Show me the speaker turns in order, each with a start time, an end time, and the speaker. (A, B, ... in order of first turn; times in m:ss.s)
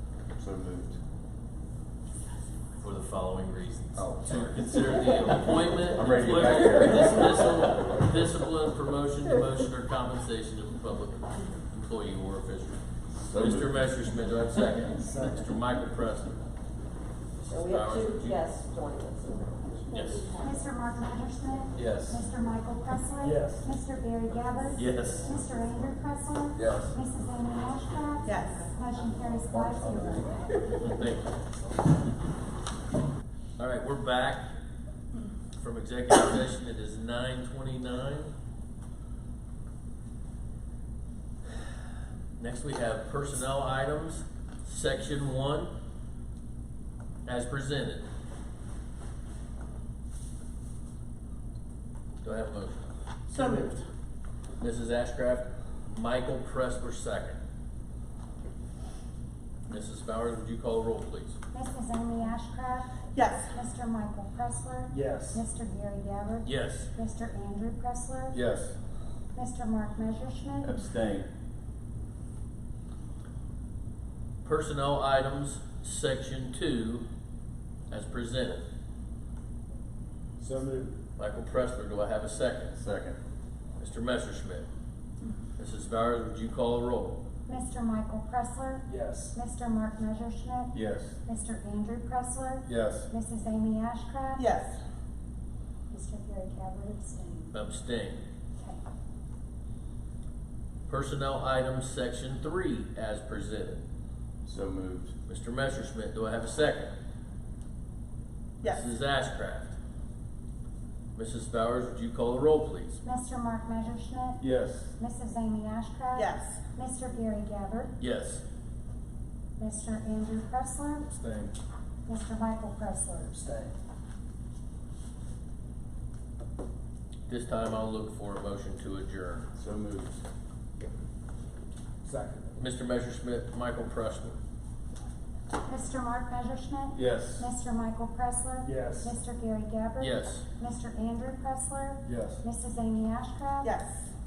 0:00.3-0:01.0 A
0:02.8-0:16.4 B
0:04.0-0:04.6 A
0:05.9-0:07.4 A
0:13.3-0:13.8 A
0:15.0-0:15.4 C
0:17.4-0:18.4 B
0:17.5-0:20.4 D
0:19.9-0:20.3 B
0:20.4-0:30.3 E
0:21.8-0:22.2 A
0:23.2-0:23.7 C
0:24.7-0:25.4 B
0:26.6-0:27.0 A
0:28.3-0:28.7 F
0:30.8-0:31.3 B
0:33.6-0:34.6 B
0:35.6-0:38.3 B
0:42.4-0:45.7 B
0:47.3-0:48.0 B
0:52.2-0:52.9 B
0:53.3-0:53.7 C
0:53.3-0:53.8 F
0:54.6-0:57.4 B
0:59.7-1:01.4 B
1:01.5-1:08.4 E
1:03.1-1:03.5 F
1:04.9-1:05.4 C
1:06.4-1:06.9 B
1:08.3-1:08.8 A
1:09.3-1:10.7 E
1:10.6-1:11.3 A
1:14.4-1:17.0 B
1:17.9-1:18.6 B
1:20.4-1:20.9 C
1:21.2-1:22.8 B
1:22.8-1:23.2 A
1:23.8-1:24.7 B
1:25.6-1:27.2 B
1:27.5-1:34.4 E
1:28.8-1:29.4 C
1:30.7-1:31.2 A
1:32.7-1:33.1 A
1:34.4-1:34.8 F
1:35.9-1:37.5 E
1:37.5-1:38.2 B
1:40.9-1:43.8 B
1:44.4-1:45.1 A
1:45.3-1:46.9 B
1:48.6-1:49.7 B
1:51.1-1:53.0 B
1:53.0-1:54.4 E
1:54.4-1:55.0 A
1:55.0-1:57.9 E
1:56.1-1:56.6 F
1:58.0-1:58.4 B
1:59.6-2:01.1 E
2:01.1-2:01.5 A
2:02.0-2:03.4 E
2:03.4-2:03.7 C
2:07.3-2:09.5 B
2:09.6-2:10.2 A
2:12.0-2:12.5 C
2:12.6-2:14.4 B
2:15.6-2:23.7 E
2:16.9-2:17.5 A
2:18.6-2:19.2 C
2:20.0-2:20.5 B
2:22.1-2:22.4 A
2:23.6-2:24.1 F